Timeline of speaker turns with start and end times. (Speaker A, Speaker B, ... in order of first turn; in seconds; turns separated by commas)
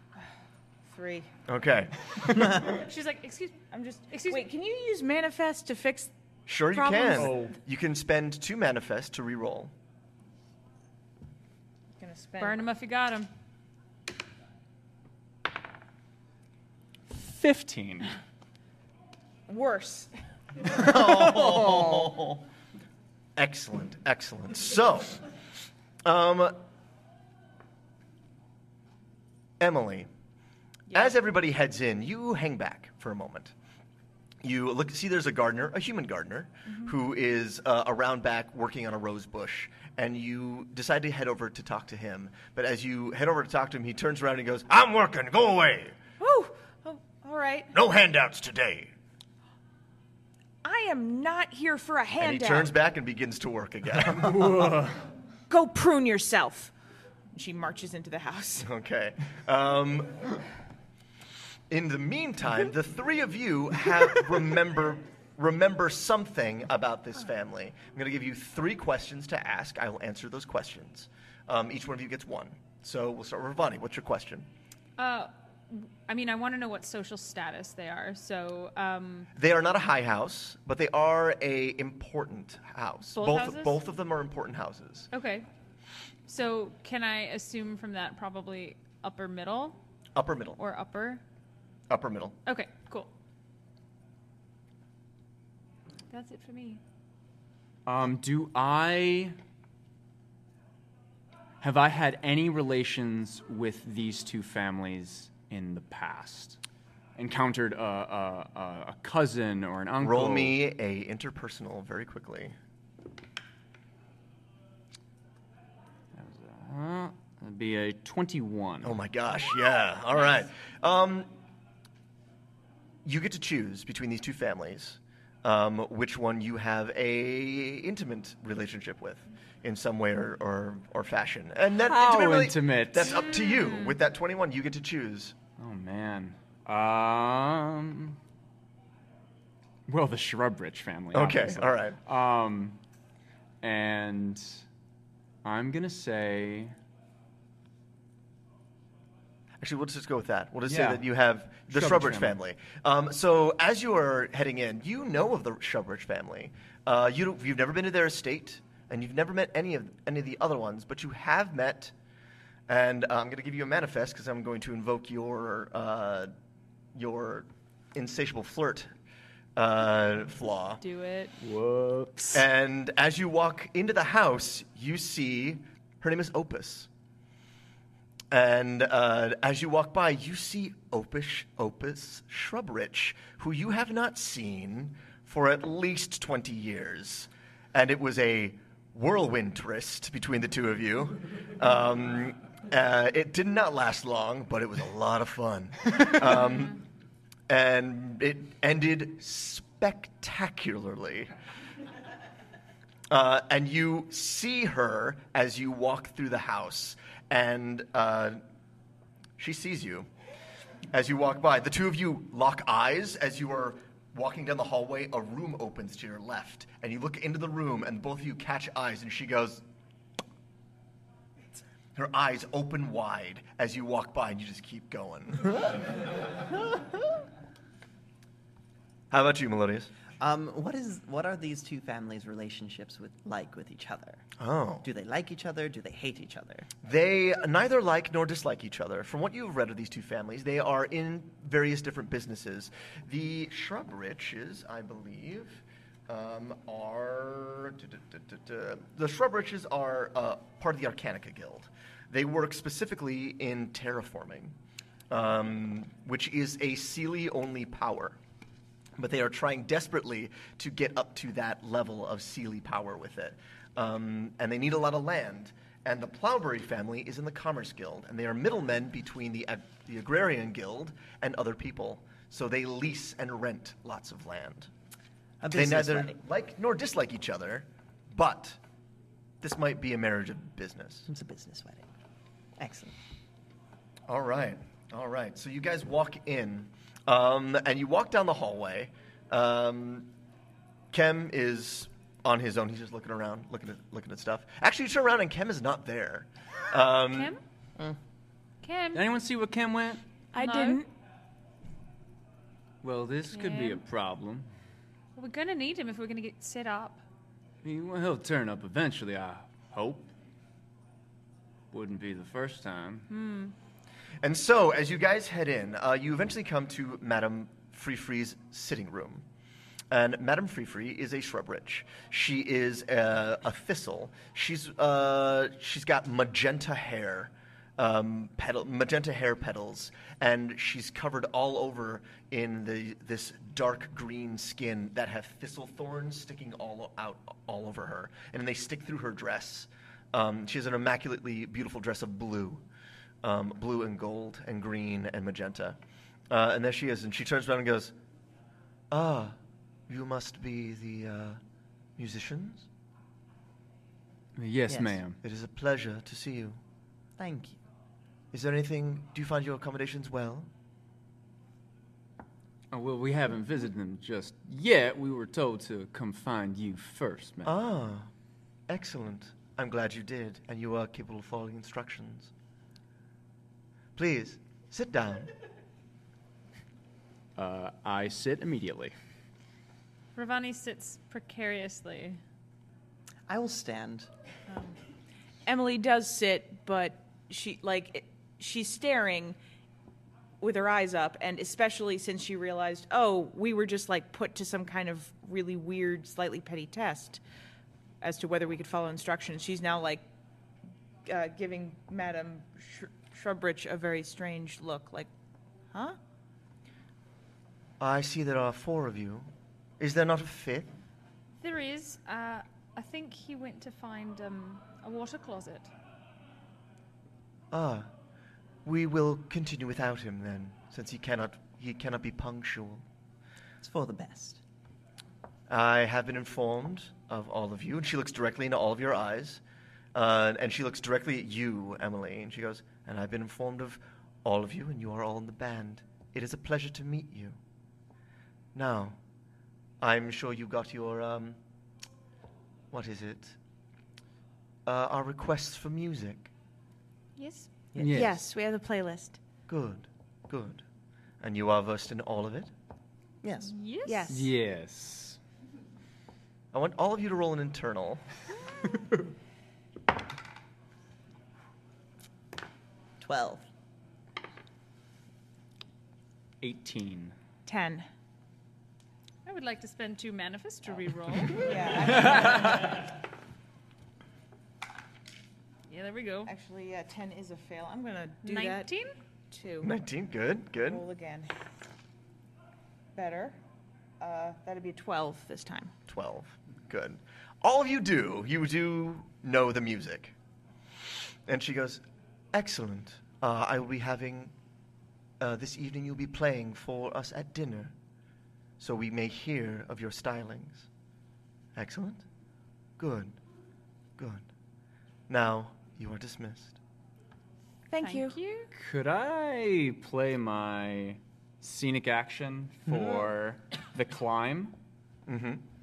Speaker A: 0.8-1.3, Speaker B: 1.5-2.5, Speaker C: 2.4-2.8, Speaker D: 2.7-4.5, Speaker A: 3.7-6.1, Speaker B: 6.5-9.7, Speaker A: 6.7-7.3, Speaker E: 7.2-7.5, Speaker A: 12.0-12.6, Speaker D: 12.4-13.3, Speaker E: 17.1-18.1, Speaker A: 19.5-20.1, Speaker C: 20.8-22.4, Speaker B: 21.2-21.7, Speaker B: 23.4-25.2, Speaker B: 26.0-26.6, Speaker B: 29.6-30.1, Speaker B: 30.9-33.5, Speaker B: 34.4-46.0, Speaker A: 46.2-47.7, Speaker B: 47.7-48.9, Speaker A: 50.6-52.7, Speaker B: 52.2-54.9, Speaker E: 54.3-55.0, Speaker A: 55.5-56.7, Speaker A: 57.3-58.7, Speaker B: 58.6-60.4, Speaker B: 61.7-74.5, Speaker D: 75.0-79.3, Speaker B: 79.3-85.1, Speaker D: 83.2-83.8, Speaker D: 85.1-85.5, Speaker D: 86.3-89.8, Speaker B: 90.2-90.6, Speaker D: 90.6-91.2, Speaker B: 91.9-92.4, Speaker D: 92.5-93.1, Speaker D: 96.1-96.8, Speaker E: 97.9-99.4, Speaker E: 101.6-106.6, Speaker E: 107.2-110.6, Speaker B: 110.0-112.5, Speaker E: 116.1-119.0, Speaker B: 118.8-121.3, Speaker B: 123.0-135.4, Speaker E: 131.8-133.2, Speaker E: 135.6-138.2, Speaker E: 139.9-142.8, Speaker B: 141.1-142.0, Speaker E: 143.6-144.6, Speaker E: 145.4-146.8, Speaker B: 149.6-161.9, Speaker E: 150.7-151.0, Speaker E: 151.7-152.4, Speaker B: 162.7-166.3, Speaker B: 166.9-168.9, Speaker B: 169.6-170.8, Speaker D: 170.8-171.3, Speaker E: 171.4-172.4, Speaker B: 172.3-176.9, Speaker B: 178.3-196.8, Speaker B: 197.5-201.3, Speaker B: 203.1-208.4, Speaker B: 209.4-210.1, Speaker B: 210.9-219.6, Speaker B: 221.9-225.7, Speaker B: 229.1-229.9, Speaker C: 230.2-234.2, Speaker B: 234.4-234.9, Speaker C: 234.8-236.7, Speaker B: 236.8-254.6, Speaker B: 255.1-258.2, Speaker B: 259.0-274.7, Speaker C: 275.4-276.2, Speaker B: 275.5-278.6, Speaker B: 279.4-281.1, Speaker C: 281.1-281.9, Speaker C: 282.6-282.9, Speaker B: 284.1-290.1, Speaker B: 290.9-297.3, Speaker D: 297.1-297.4, Speaker D: 298.6-299.0, Speaker E: 298.9-300.0, Speaker A: 300.3-300.9, Speaker D: 300.4-300.8, Speaker E: 302.8-304.5, Speaker D: 303.3-303.8, Speaker D: 305.2-307.0, Speaker E: 307.6-310.1, Speaker E: 311.7-313.1, Speaker D: 313.1-313.5, Speaker B: 314.2-319.2, Speaker B: 319.9-342.6, Speaker B: 343.2-345.8, Speaker B: 346.3-347.9, Speaker B: 348.9-349.4, Speaker B: 349.9-351.4, Speaker B: 352.0-352.7, Speaker E: 354.4-355.2, Speaker C: 354.7-355.0, Speaker B: 355.2-356.6, Speaker C: 357.2-357.6, Speaker B: 358.3-360.5, Speaker E: 362.7-367.5, Speaker B: 367.4-368.1, Speaker B: 368.7-372.3, Speaker B: 373.9-375.3, Speaker E: 377.4-378.9, Speaker D: 380.1-382.2, Speaker C: 383.3-384.1, Speaker A: 384.5-384.8, Speaker A: 385.4-389.4, Speaker A: 390.4-397.2, Speaker A: 398.0-400.1, Speaker A: 401.1-405.1, Speaker A: 405.7-406.0, Speaker B: 407.8-410.7, Speaker D: 411.4-415.7, Speaker B: 417.5-417.9, Speaker B: 418.6-422.8, Speaker C: 423.6-424.4, Speaker B: 425.5-429.4, Speaker B: 429.9-437.4, Speaker B: 438.5-439.0, Speaker B: 439.8-441.4, Speaker B: 442.7-443.4, Speaker B: 444.7-446.3, Speaker D: 447.2-447.5, Speaker C: 447.7-448.1, Speaker E: 447.8-448.2, Speaker A: 447.9-449.2, Speaker B: 449.5-450.6, Speaker B: 451.2-452.5, Speaker C: 453.2-453.5, Speaker D: 453.4-454.1, Speaker A: 453.9-454.3, Speaker E: 454.1-455.2, Speaker B: 456.5-458.0, Speaker C: 463.0-463.5, Speaker E: 466.4-467.1, Speaker A: 467.5-467.9, Speaker D: 469.3-471.5, Speaker A: 471.3-472.8, Speaker E: 472.1-472.4, Speaker D: 475.7-476.3, Speaker A: 476.3-478.7, Speaker D: 478.2-478.9, Speaker A: 479.3-479.7, Speaker B: 479.6-480.8, Speaker A: 480.7-481.3, Speaker A: 482.9-483.4, Speaker A: 484.0-485.7, Speaker B: 485.9-490.1, Speaker B: 491.3-494.3, Speaker B: 495.2-497.7, Speaker B: 498.6-500.7, Speaker B: 501.6-502.0, Speaker B: 502.8-503.2, Speaker B: 504.0-504.3, Speaker B: 505.1-506.6, Speaker A: 507.7-508.2, Speaker D: 507.8-508.5, Speaker E: 508.6-514.5, Speaker B: 515.1-515.4